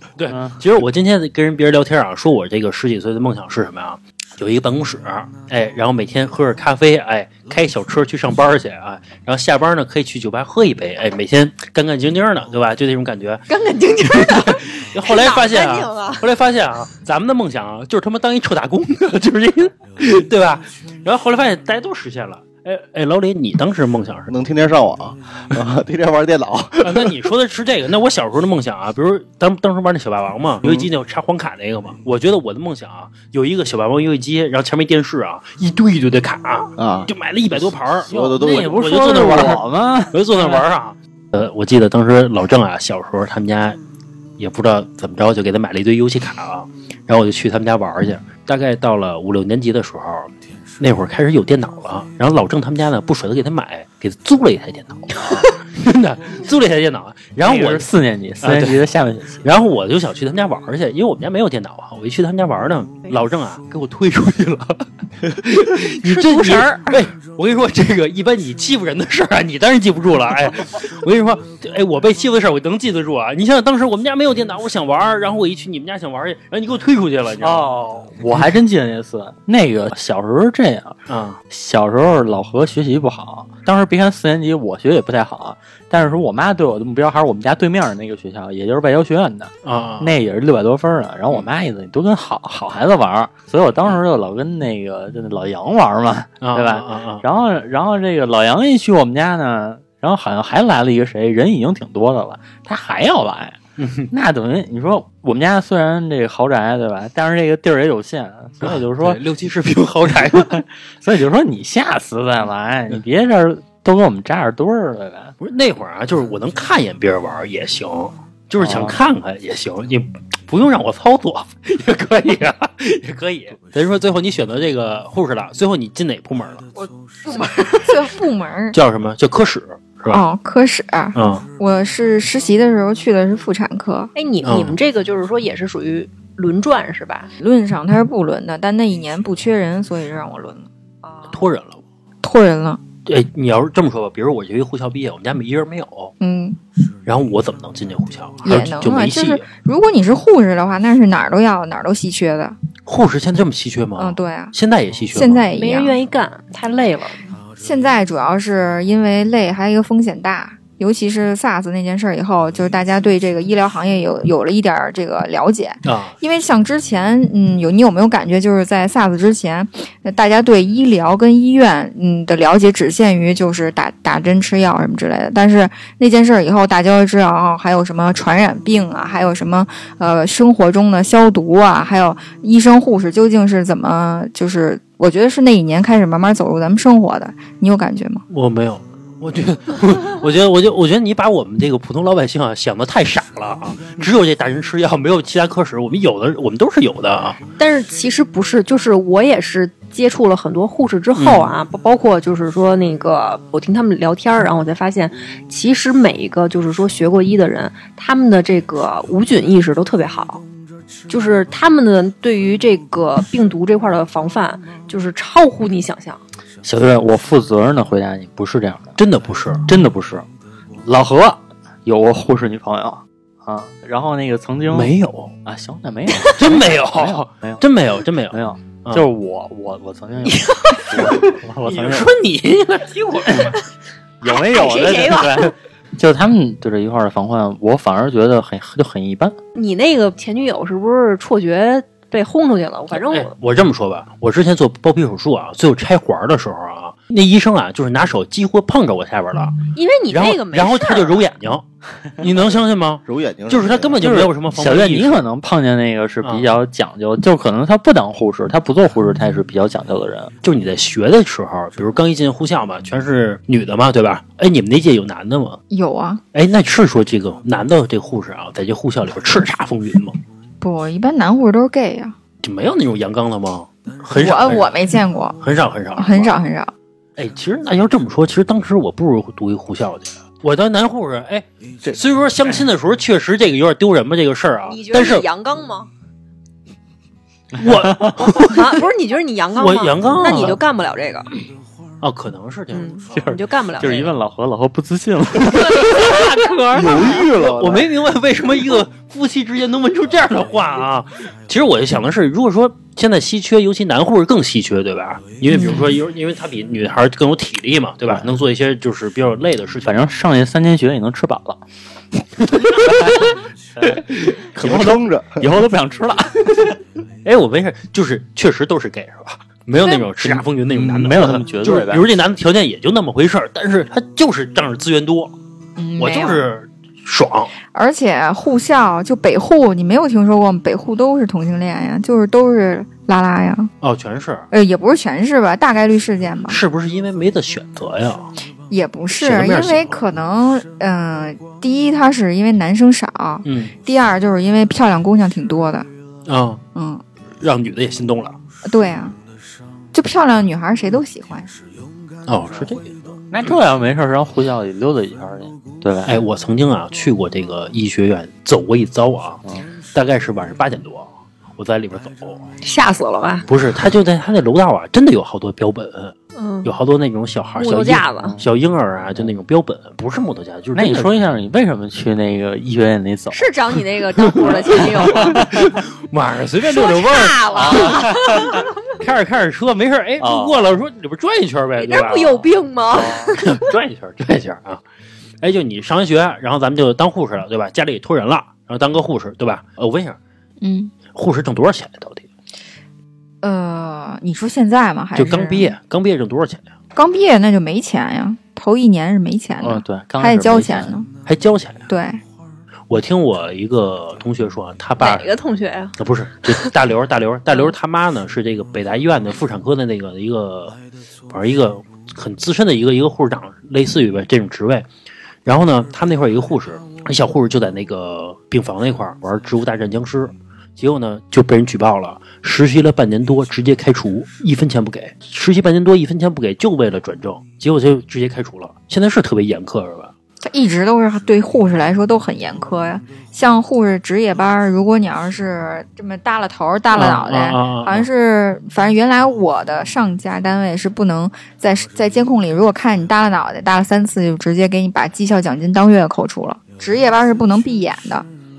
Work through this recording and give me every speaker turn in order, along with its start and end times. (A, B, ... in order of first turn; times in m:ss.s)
0:00.2-0:13.4 A
0:00.3-0:00.6 B
0:13.5-0:16.3 C
0:14.1-0:24.3 A
0:24.3-0:27.1 D
0:26.8-0:43.8 A
0:36.8-0:37.1 D
0:38.1-0:38.8 D
0:38.1-0:40.6 B
0:44.4-0:57.9 A
0:57.4-0:59.4 B
0:58.4-0:58.8 A
0:59.4-1:17.7 A
1:06.1-1:07.0 C
1:17.4-1:21.0 B
1:21.1-1:21.4 A
1:21.5-1:43.6 B
1:29.6-1:30.2 A
1:36.4-1:37.2 A
1:43.8-1:44.1 A
1:44.1-1:49.2 B
1:48.6-1:50.6 A
1:50.3-1:55.3 B
1:55.4-2:06.7 A
1:58.6-1:59.0 B
2:07.3-2:07.8 C
2:07.7-2:08.8 E
2:08.7-2:10.2 A
2:10.1-2:14.1 E
2:11.2-2:11.4 A
2:14.2-2:17.3 C
2:14.4-2:14.8 A
2:17.4-2:20.7 E
2:21.0-2:21.3 C
2:21.3-2:21.8 A
2:22.2-2:22.8 E
2:23.1-2:26.1 A
2:26.2-2:26.6 E
2:27.1-2:29.4 A
2:28.4-2:32.6 E
2:32.9-2:35.5 A
2:34.0-2:34.5 E
2:35.1-2:36.0 E
2:35.6-2:37.2 C
2:37.6-3:08.2 E
2:45.8-2:46.2 A
3:08.3-3:17.4 A
3:17.6-3:30.4 C
3:21.2-3:21.6 A
3:31.1-3:36.2 C
3:36.6-3:39.0 B
3:39.0-3:39.7 A
3:39.7-3:40.3 B
3:40.8-3:44.9 B
3:44.7-3:45.3 A
3:45.4-3:47.6 B
3:46.3-3:49.0 A
3:48.3-3:52.1 B
3:51.1-3:53.6 A
3:54.2-3:59.4 B
3:54.2-3:55.5 C
3:59.6-4:03.3 C
4:02.9-4:09.6 A
4:09.8-4:11.3 C
4:10.1-4:11.7 A
4:12.2-4:15.2 A
4:13.1-4:14.0 D
4:14.0-4:20.3 B
4:16.2-4:16.5 A
4:20.4-4:25.6 A
4:25.7-4:26.2 E
4:26.3-4:30.2 A
4:30.6-4:32.2 E
4:32.4-4:34.8 A
4:34.2-4:35.4 E
4:35.4-4:36.4 A
4:36.0-4:36.7 E
4:37.2-4:45.3 A
4:44.7-4:45.9 C
4:47.6-4:48.5 B
4:47.6-4:48.8 A
4:48.4-4:51.3 C
4:49.6-4:50.6 A
4:52.0-4:52.9 A
4:52.7-4:54.1 C
4:53.1-4:56.1 B
4:55.7-5:10.0 A
4:55.7-4:56.2 C
4:56.7-4:57.9 D
4:57.0-4:57.4 B
5:05.5-5:05.9 E
5:08.1-5:08.3 B
5:09.8-5:11.6 B
5:12.4-5:16.8 B
5:12.9-5:13.2 A
5:14.6-5:15.5 D
5:17.2-5:25.3 A
5:20.2-5:22.1 B
5:25.8-5:26.5 E
5:26.0-5:27.6 A
5:27.7-5:33.7 E
5:33.8-5:34.5 A
5:34.5-5:36.6 E
5:36.5-5:38.3 A
5:38.7-5:45.9 E
5:39.2-5:40.0 A
5:43.4-5:43.7 A
5:46.3-5:46.6 A
5:46.8-5:47.0 E
5:47.4-5:48.4 A
5:48.6-5:49.2 E
5:49.9-5:51.5 E
5:52.3-5:53.6 A
5:53.3-5:56.2 B
5:56.1-5:59.4 A
5:59.9-6:02.5 A
6:02.6-6:03.5 C
6:03.5-6:11.2 A
6:06.4-6:06.7 C
6:07.6-6:08.4 C
6:08.2-6:08.5 B
6:10.8-6:13.5 B
6:13.3-6:15.5 C
6:14.4-6:18.0 A
6:14.4-6:15.8 B
6:16.7-6:18.7 C
6:17.6-6:18.6 B
6:18.9-6:22.5 A
6:20.2-6:20.7 B
6:21.8-6:23.6 C
6:22.9-6:23.3 B
6:23.4-6:24.8 A
6:25.4-6:30.2 A
6:30.6-6:30.9 E
6:31.2-6:32.3 A
6:33.4-6:35.8 E
6:35.2-6:36.7 A
6:37.0-6:41.1 E
6:39.6-6:40.9 B
6:41.3-6:41.9 A
6:41.9-6:42.2 E
6:42.9-6:45.3 A
6:45.0-6:46.0 C
6:46.0-6:50.8 A
6:51.3-6:54.9 A
6:55.5-7:10.1 A
7:10.4-7:28.3 E
7:16.9-7:18.1 A